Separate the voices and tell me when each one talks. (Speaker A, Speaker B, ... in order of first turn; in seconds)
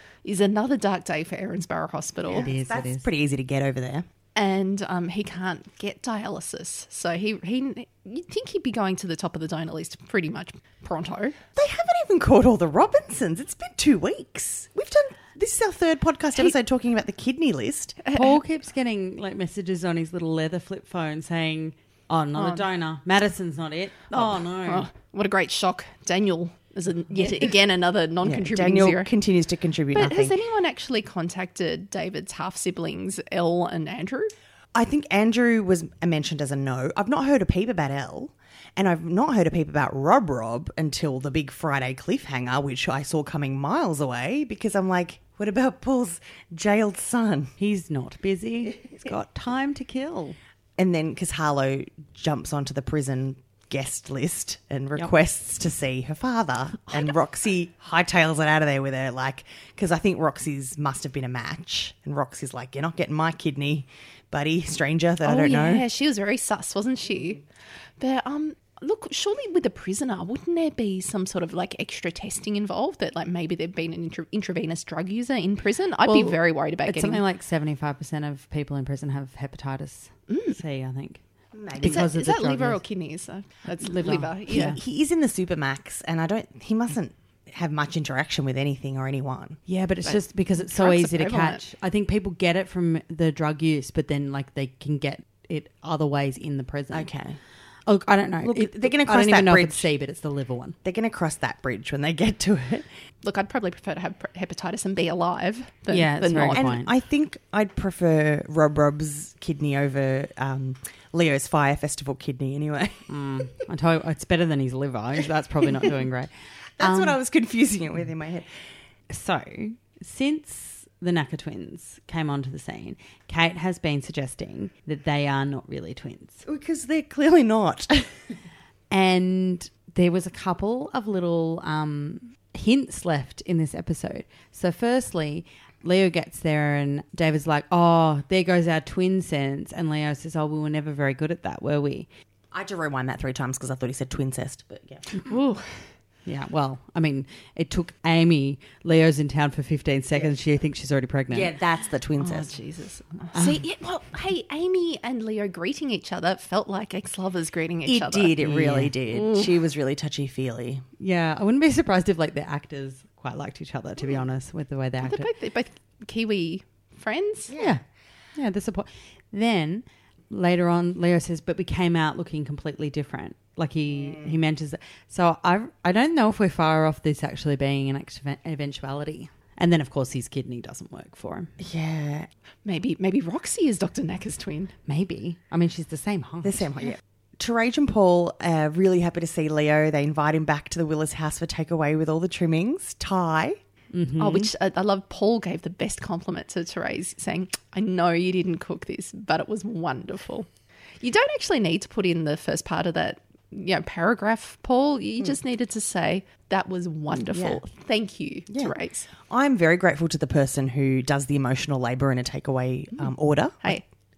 Speaker A: 0.2-2.5, 4.4-11.4, 18.0-18.4, 22.4-22.7, 24.1-29.1, 29.9-34.3, 65.2-67.4, 68.0-77.2, 80.3-80.6, 81.8-84.7, 90.1-91.6, 103.2-106.7, 145.2-145.7, 152.2-158.3, 159.1-159.6, 165.0-167.5, 182.7-184.7, 194.2-200.5, 201.0-209.1
Speaker B: 2.3-4.1, 11.6-18.0, 28.2-30.4, 34.7-47.5, 50.8-65.8, 81.5-82.1, 84.5-89.6, 96.9-97.4, 98.4-99.9, 100.8-102.9, 106.5-113.1, 116.8-118.5, 126.5-128.3, 142.5-145.1, 151.3-152.5, 157.8-160.8, 167.5-167.8, 173.9-174.3, 181.6-182.3, 186.4-193.6, 207.3-207.6, 208.5-213.8
Speaker C: 2.3-3.1, 18.1-24.9, 47.6-50.4, 76.1-81.2, 81.8-82.8, 83.7-84.8, 89.7-97.1, 97.9-100.8, 105.9-106.9, 113.1-117.2, 119.1-126.4, 128.9-142.1, 146.3-151.5, 153.3-153.6, 158.4-158.9, 161.0-165.3, 168.4-181.5, 184.9-186.7, 193.9-194.5